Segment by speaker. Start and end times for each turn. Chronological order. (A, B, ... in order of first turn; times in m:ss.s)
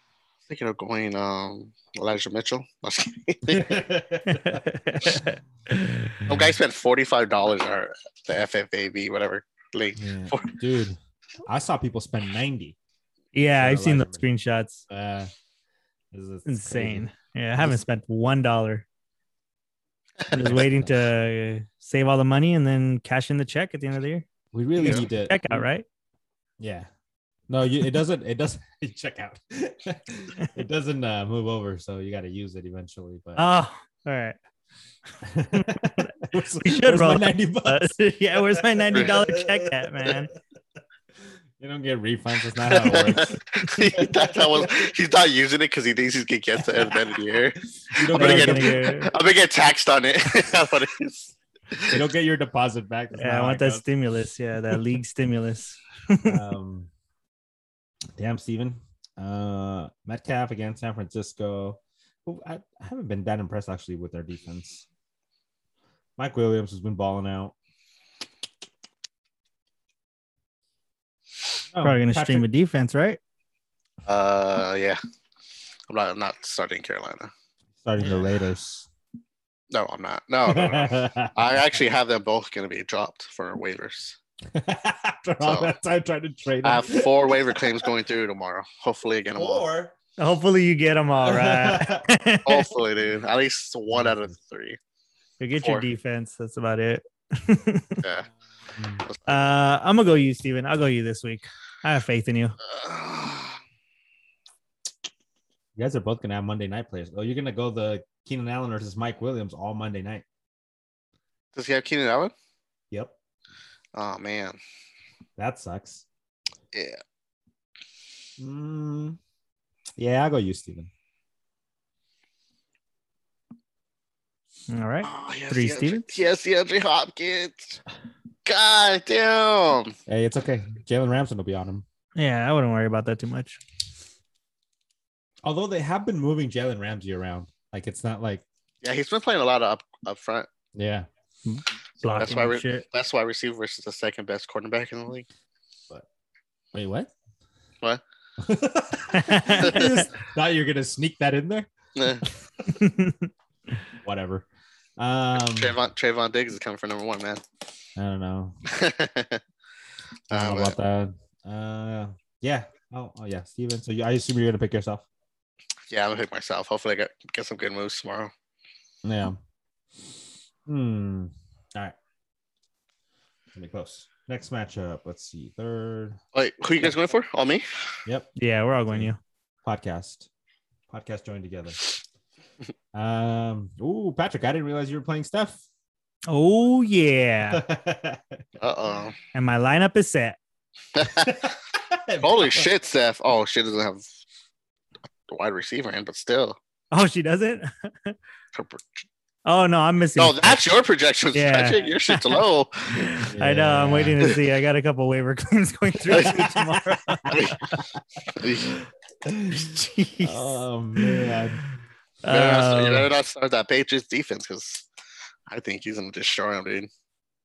0:00.5-0:03.8 A
0:03.5-0:05.2 B
0:04.2-0:06.1 C
0:06.2-0:10.6 A
0:10.0-0:12.8 B
0:13.3-0:14.8 C
0:13.6-0:14.3 B
0:14.9-0:15.3 B
0:16.1-0:17.8 B
0:16.4-0:18.8 C
0:20.2-0:20.6 A
0:20.3-0:25.8 C
0:20.3-0:21.1 B
0:24.5-0:25.7 B
0:26.6-0:26.9 B
0:27.5-0:33.4 B
0:33.4-0:34.4 C
0:35.2-0:40.2 B
0:35.5-0:40.3 C
0:41.6-0:43.4 B
0:42.7-0:52.0 A
0:43.9-0:44.9 B
0:47.9-0:48.8 B
0:48.1-0:49.1 C
0:51.9-0:53.9 B
0:53.2-0:56.4 C
0:56.2-0:56.9 B
0:58.2-1:04.9 B
1:06.2-1:07.5 B
1:11.7-1:12.5 B
1:11.8-1:13.2 C
1:14.0-1:15.0 A
1:15.9-1:17.3 A
1:17.8-1:18.9 B
1:19.7-1:24.2 A
1:20.4-1:21.3 B
1:24.5-1:27.9 B
1:25.4-1:25.7 A
1:26.6-1:29.6 A
1:29.3-1:29.9 B
1:30.2-1:32.7 C
1:31.2-1:32.1 B
1:32.4-1:34.8 A
1:33.9-1:34.3 B
1:35.4-1:38.0 C
1:35.6-1:35.9 A
1:38.0-1:38.3 A
1:38.7-1:39.0 B
1:39.0-1:39.5 A
1:39.3-1:42.6 C
1:42.7-1:43.6 A
1:45.8-1:50.2 B
1:51.5-1:52.3 A
1:52.9-1:53.2 B
1:54.0-1:54.6 A
1:55.4-1:56.0 B
1:56.7-1:57.0 A
1:58.4-1:59.2 B
2:00.0-2:00.9 B
2:04.7-2:06.1 C
2:05.0-2:07.8 A
2:08.4-2:10.0 A
2:10.1-2:11.8 B
2:12.2-2:13.6 C
2:15.4-2:18.4 B
2:18.8-2:20.5 A
2:20.7-2:21.1 B
2:21.4-2:22.8 C
2:22.1-2:25.2 A
2:26.7-2:27.1 B
2:28.4-2:31.7 B
2:29.1-2:30.1 C
2:29.6-2:29.9 A
2:32.0-2:32.2 A
2:32.7-2:33.3 C
2:34.0-2:35.7 B
2:35.3-2:37.4 A
2:38.0-2:38.6 B
2:38.7-2:39.4 A
2:40.3-2:40.8 A
2:40.3-2:45.0 B
2:45.9-2:48.3 A
2:49.0-2:49.4 B
2:50.6-2:52.0 B
2:53.5-2:56.2 B
2:56.3-2:58.0 A
2:58.0-2:58.3 B
2:58.4-2:59.2 C
2:58.9-2:59.1 B
2:59.6-3:00.3 B
3:00.9-3:01.9 B
3:02.9-3:05.6 B
3:06.3-3:07.6 C
3:07.5-3:08.5 B
3:08.6-3:09.2 A
3:09.3-3:10.4 C
3:10.9-3:11.5 A
3:11.0-3:12.7 B
3:12.2-3:14.0 A
3:15.3-3:16.6 A
3:16.9-3:18.2 C
3:18.5-3:19.0 A
3:19.4-3:20.7 C
3:20.2-3:23.1 A
3:21.3-3:22.4 C
3:22.9-3:27.8 C
3:23.3-3:24.3 B
3:26.1-3:26.7 A
3:27.3-3:27.6 A
3:28.3-3:28.8 A
3:29.2-3:31.6 B
3:29.5-3:31.3 C
3:32.2-3:33.1 C
3:32.3-3:34.9 A
3:35.5-3:36.9 A